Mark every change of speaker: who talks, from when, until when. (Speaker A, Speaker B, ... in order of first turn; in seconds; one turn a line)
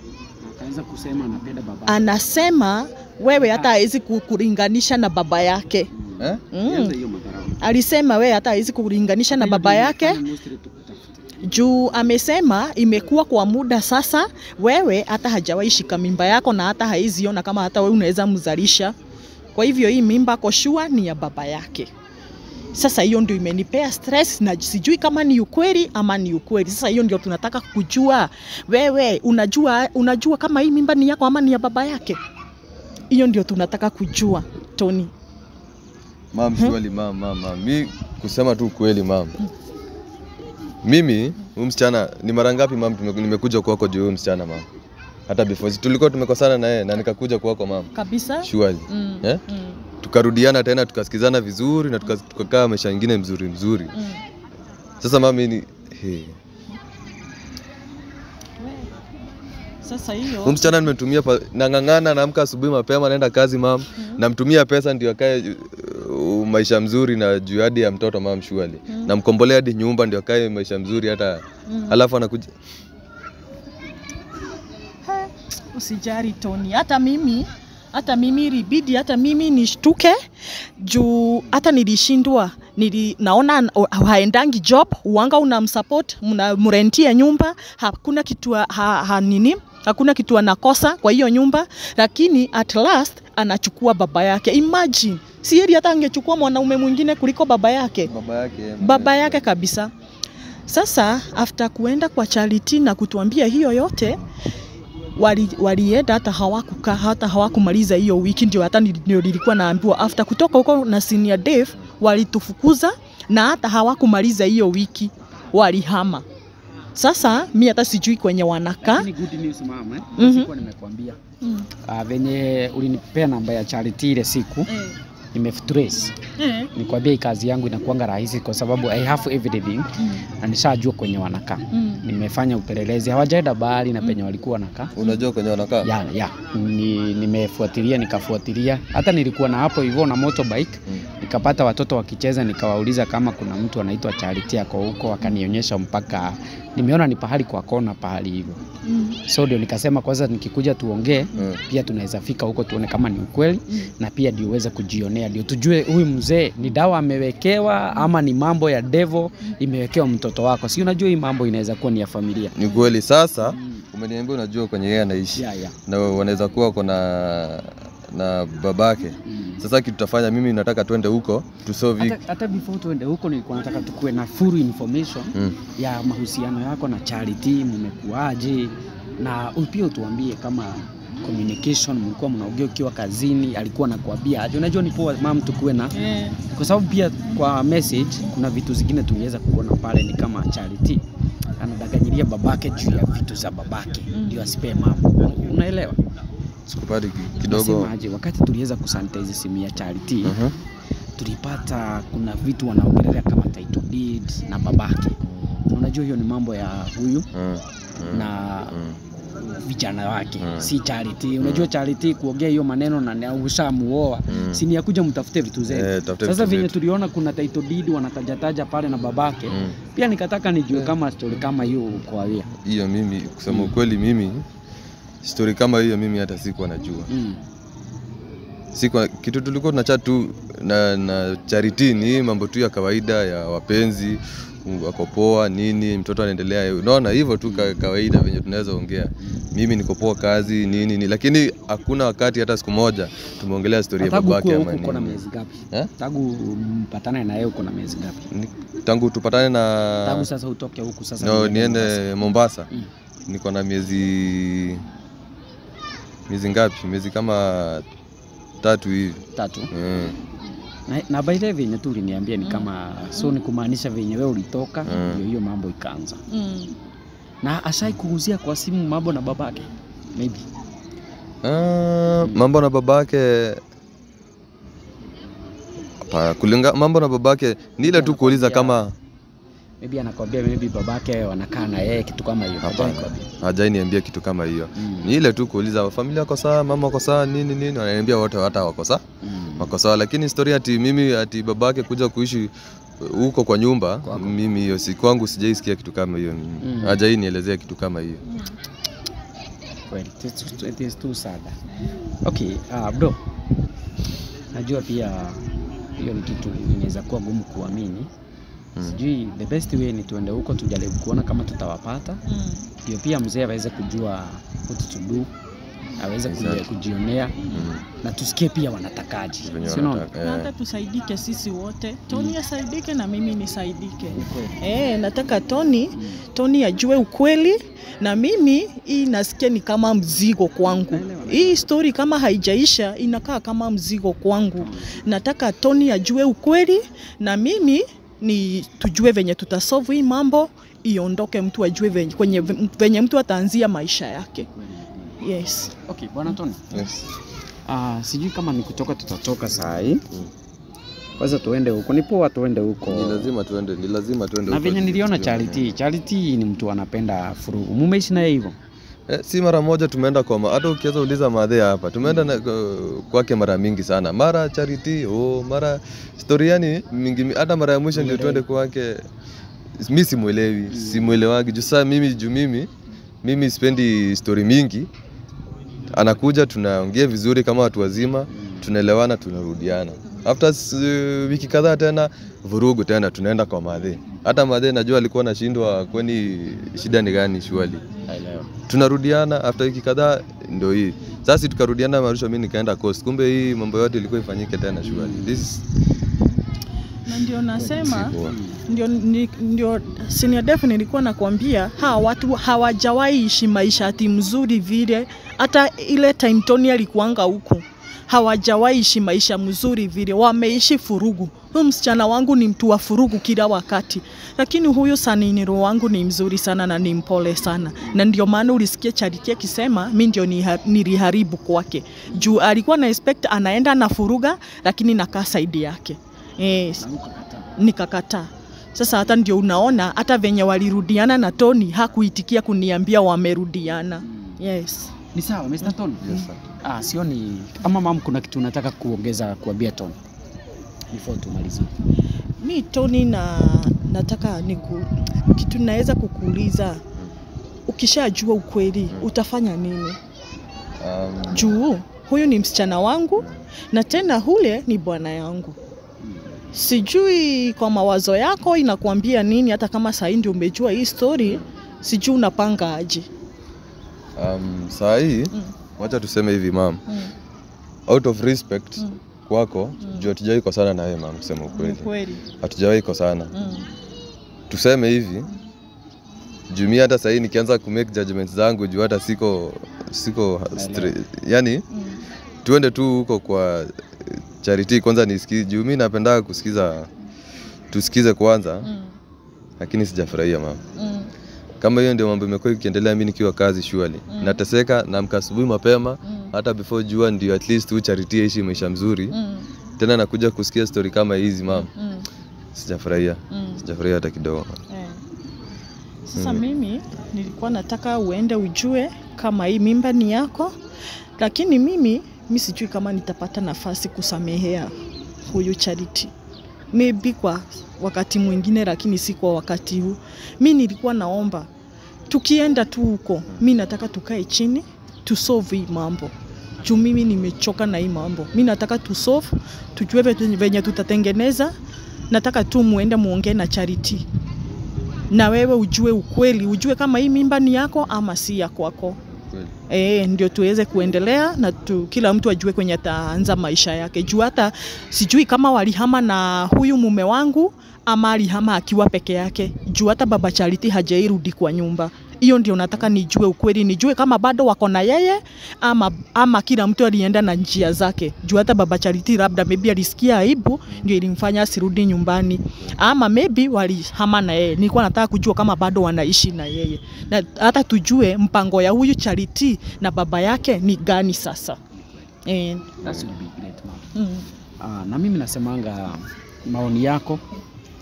Speaker A: 0.4-2.0
Speaker B: 1.9-5.9
Speaker A: 3.4-3.7
Speaker A: 6.0-7.6
Speaker B: 6.5-6.9
Speaker B: 7.6-10.2
Speaker A: 9.3-11.2
Speaker B: 11.4-18.9
Speaker B: 19.5-21.9
Speaker B: 22.7-32.2
Speaker B: 33.1-35.1
Speaker C: 36.3-39.4
Speaker C: 40.8-44.6
Speaker C: 45.3-47.9
Speaker B: 47.9-49.8
Speaker C: 48.4-49.4
Speaker C: 50.0-53.9
Speaker B: 53.9-54.2
Speaker C: 55.0-56.4
Speaker B: 58.6-58.9
Speaker B: 59.8-60.8
Speaker C: 60.4-72.5
Speaker B: 71.7-72.0
Speaker B: 75.0-80.2
Speaker B: 80.8-98.1
Speaker C: 98.0-99.4
Speaker B: 98.8-99.9
Speaker B: 100.7-104.2
Speaker B: 105.2-116.2
Speaker B: 116.9-119.1
Speaker A: 118.8-121.2
Speaker B: 120.2-120.5
Speaker B: 121.4-121.7
Speaker A: 121.8-124.7
Speaker B: 124.7-125.0
Speaker A: 125.3-126.2
Speaker B: 126.4-126.7
Speaker A: 126.7-134.9
Speaker B: 130.0-130.2
Speaker B: 131.7-132.0
Speaker C: 134.9-135.9
Speaker A: 135.8-148.6
Speaker B: 148.8-149.2
Speaker A: 149.3-162.5
Speaker C: 162.6-172.2
Speaker A: 163.5-163.8
Speaker A: 165.3-165.8
Speaker A: 169.2-169.6
Speaker A: 172.0-186.0
Speaker B: 185.9-186.4
Speaker A: 186.5-191.0
Speaker A: 191.6-196.0
Speaker B: 194.1-194.5
Speaker C: 196.7-197.9
Speaker A: 197.4-200.4
Speaker C: 200.2-200.6
Speaker A: 201.2-205.2
Speaker A: 205.7-207.3
Speaker C: 207.3-209.0
Speaker A: 208.1-208.8
Speaker A: 209.4-222.5
Speaker C: 210.4-210.7
Speaker C: 211.4-211.7
Speaker C: 214.3-214.6
Speaker C: 215.7-216.7
Speaker C: 222.6-224.4
Speaker A: 223.5-223.7
Speaker C: 225.2-227.1
Speaker A: 227.1-227.4
Speaker C: 228.7-245.2
Speaker A: 237.4-237.8
Speaker A: 239.2-239.5
Speaker A: 244.0-248.3
Speaker C: 248.3-250.3
Speaker A: 250.0-252.0
Speaker C: 251.2-252.7
Speaker C: 253.3-254.8
Speaker C: 256.3-257.8
Speaker C: 258.6-260.2
Speaker A: 259.4-259.7
Speaker A: 260.9-266.2
Speaker B: 262.4-262.7
Speaker C: 264.8-265.2
Speaker B: 266.3-266.8
Speaker A: 267.4-270.4
Speaker C: 271.4-273.6
Speaker C: 276.0-278.9
Speaker A: 277.8-278.8
Speaker A: 279.8-283.3
Speaker C: 282.6-289.0
Speaker A: 284.8-285.1
Speaker A: 289.2-289.7
Speaker C: 289.6-298.2
Speaker A: 294.0-294.4
Speaker A: 296.6-297.0
Speaker A: 299.9-301.6
Speaker A: 302.2-303.2
Speaker A: 304.5-305.4
Speaker A: 306.0-308.1
Speaker A: 308.8-312.2
Speaker B: 312.3-312.7
Speaker A: 312.8-315.3
Speaker A: 316.0-320.1
Speaker C: 316.3-316.7
Speaker C: 317.5-317.8
Speaker C: 319.4-320.5
Speaker B: 320.1-344.5
Speaker A: 324.1-324.6
Speaker A: 326.0-326.2
Speaker A: 330.7-331.7
Speaker A: 334.6-335.0
Speaker A: 344.5-345.2
Speaker B: 345.2-345.7
Speaker A: 345.8-346.9
Speaker A: 347.6-350.0
Speaker A: 351.2-353.3
Speaker C: 352.9-355.8
Speaker A: 354.5-358.6
Speaker C: 359.1-369.1
Speaker A: 367.9-368.4
Speaker C: 369.8-372.7
Speaker A: 370.7-371.2
Speaker C: 373.2-374.9
Speaker C: 375.9-387.8
Speaker A: 378.3-378.7
Speaker A: 388.1-388.5
Speaker C: 388.7-395.5
Speaker A: 394.8-395.6
Speaker B: 397.1-398.1
Speaker A: 397.6-398.6
Speaker C: 397.8-398.4
Speaker B: 398.7-426.8
Speaker A: 422.1-422.4
Speaker A: 426.8-427.5
Speaker B: 427.6-434.9
Speaker A: 434.1-434.4
Speaker A: 435.1-436.1
Speaker C: 436.0-436.4
Speaker A: 436.6-439.9
Speaker A: 440.9-441.7
Speaker B: 442.4-446.8
Speaker B: 447.7-450.0
Speaker C: 450.8-451.6
Speaker B: 451.3-455.6
Speaker B: 456.5-463.1
Speaker C: 464.2-466.8
Speaker C: 467.9-471.9
Speaker B: 469.8-470.1
Speaker B: 471.5-472.2
Speaker C: 472.4-473.3
Speaker B: 473.3-473.7
Speaker C: 474.5-475.3
Speaker C: 476.5-481.6
Speaker A: 480.5-480.9
Speaker B: 481.7-482.0
Speaker C: 482.4-486.9
Speaker C: 487.7-488.7
Speaker B: 488.6-488.9
Speaker C: 489.6-490.6
Speaker B: 490.8-491.1
Speaker C: 491.6-499.2
Speaker B: 494.1-494.4
Speaker B: 496.1-496.3
Speaker B: 499.1-499.5
Speaker C: 499.8-501.7
Speaker B: 501.5-502.1
Speaker C: 502.5-504.6
Speaker B: 503.3-503.6
Speaker B: 504.7-505.0
Speaker B: 506.1-510.5
Speaker C: 506.2-506.4
Speaker B: 511.2-516.1
Speaker B: 516.7-521.5
Speaker B: 522.1-531.5
Speaker B: 532.1-534.0
Speaker B: 535.1-539.0
Speaker C: 539.2-539.5
Speaker B: 539.7-571.6
Speaker B: 572.2-572.7
Speaker C: 572.8-573.1
Speaker A: 572.8-573.9
Speaker B: 573.9-574.2
Speaker A: 574.6-577.2